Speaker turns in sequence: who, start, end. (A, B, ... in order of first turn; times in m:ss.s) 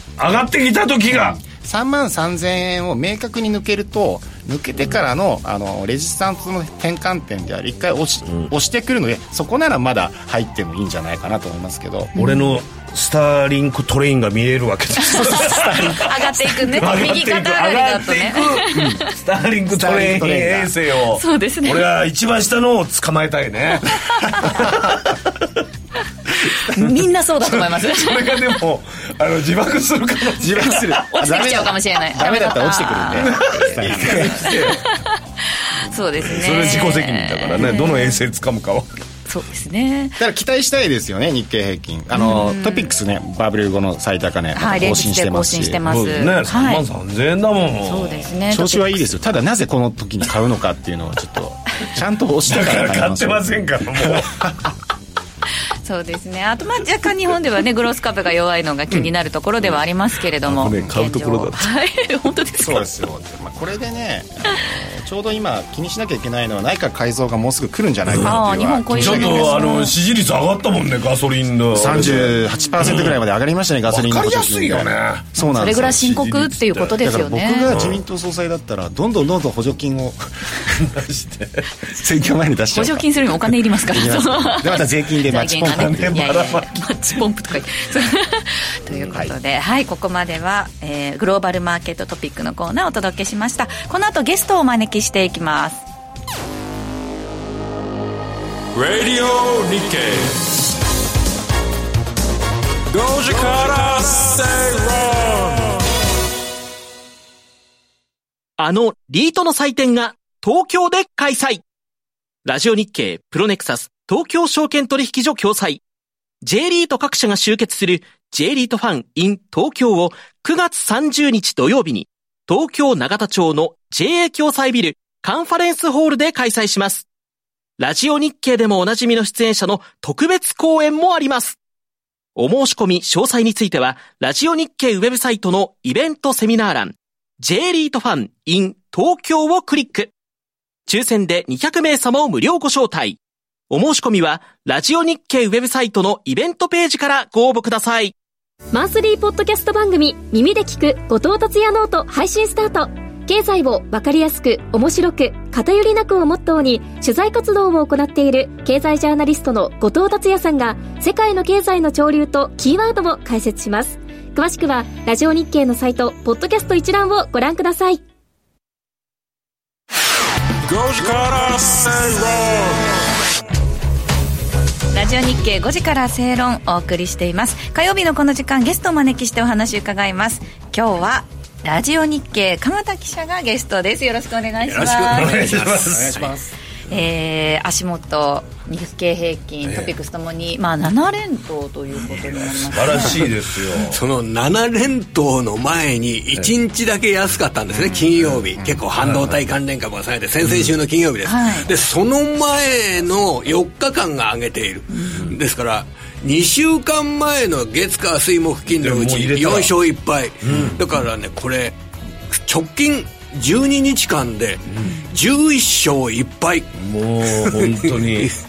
0:00.2-0:01.4 A
0:01.1-0:12.1 B
0:12.1-0:25.4 A
0:12.2-0:12.6 C
0:15.1-0:19.1 C
0:15.3-0:16.1 B
0:19.7-0:20.7 B
0:21.1-0:21.9 C
0:26.4-0:28.4 C
0:27.4-0:31.3 A
0:30.4-0:34.6 B
0:31.1-0:33.3 C
0:33.2-0:34.8 A
0:34.1-0:38.2 C
0:36.2-0:38.9 A
0:39.2-0:40.2 C
0:40.2-0:45.8 B
0:42.1-0:42.9 C
0:44.5-0:46.8 C
0:45.9-0:48.3 A
0:47.8-0:49.1 C
0:48.5-0:54.6 B
0:52.5-0:54.5 A
0:55.8-1:02.8 C
1:00.4-1:01.7 A
1:02.6-1:09.6 B
1:08.1-1:08.4 A
1:08.2-1:09.9 C
1:08.9-1:13.2 A
1:11.7-1:16.1 B
1:12.5-1:12.8 C
1:13.9-1:17.0 A
1:15.4-1:17.7 C
1:17.0-1:20.8 B
1:17.7-1:18.0 A
1:20.8-1:21.7 A
1:21.9-1:23.2 B
1:22.7-1:35.8 C
1:23.9-1:26.3 B
1:25.7-1:26.7 A
1:29.1-1:29.3 B
1:38.7-1:40.4 D
1:42.9-1:45.8 D
1:48.6-1:51.6 E
1:52.4-1:55.8 E
1:56.4-2:07.0 E
2:07.8-2:11.6 E
2:12.4-2:20.1 E
2:20.9-2:23.2 E
2:23.7-2:28.1 E
2:28.7-2:48.0 F
2:50.6-2:53.0 D
2:54.9-3:05.6 C
3:04.7-3:06.3 A
3:05.8-3:06.5 B
3:06.9-3:13.2 C
3:09.6-3:09.9 A
3:11.9-3:14.0 A
3:13.8-3:31.8 G
3:18.2-3:18.4 A
3:19.0-3:19.4 A
3:20.4-3:20.7 A
3:21.2-3:21.7 C
3:28.7-3:29.8 A
3:30.4-3:30.8 A
3:32.3-3:36.7 G
3:36.8-3:38.3 A
3:37.4-3:38.4 G